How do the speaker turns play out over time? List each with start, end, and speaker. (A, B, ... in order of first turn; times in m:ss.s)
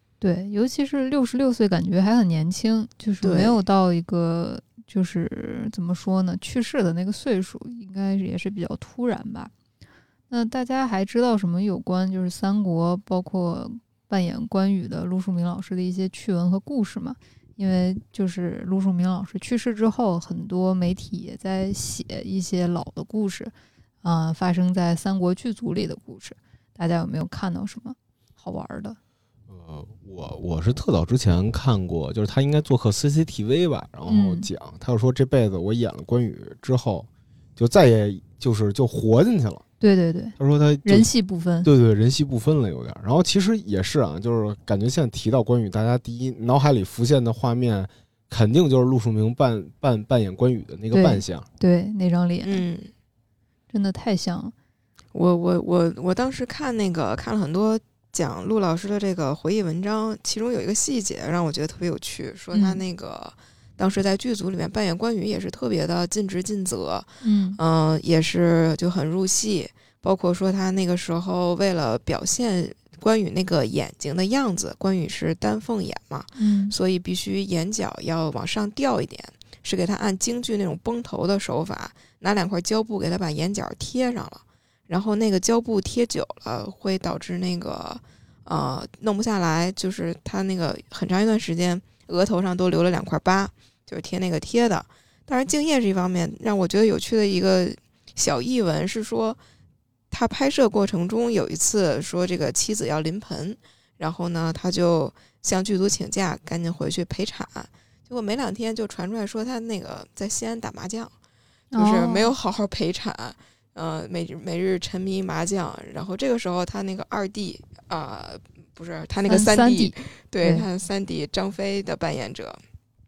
0:00.2-0:09.5 A
0:03.2-0:03.6 B
0:10.3-0:23.5 A
0:24.0-0:29.0 A
0:29.5-0:39.6 C
0:34.1-0:34.5 A
0:39.8-0:41.7 A
0:40.4-0:41.1 C
0:41.6-0:51.5 C
0:50.9-0:52.6 A
0:52.4-0:52.9 B
0:53.7-0:54.5 A
0:55.1-1:39.4 B
1:02.5-1:02.8 A
1:07.2-1:07.6 A
1:16.4-1:16.8 A
1:40.1-1:51.1 B
1:51.7-1:52.3 A
1:51.8-2:02.6 B
1:59.3-2:00.6 A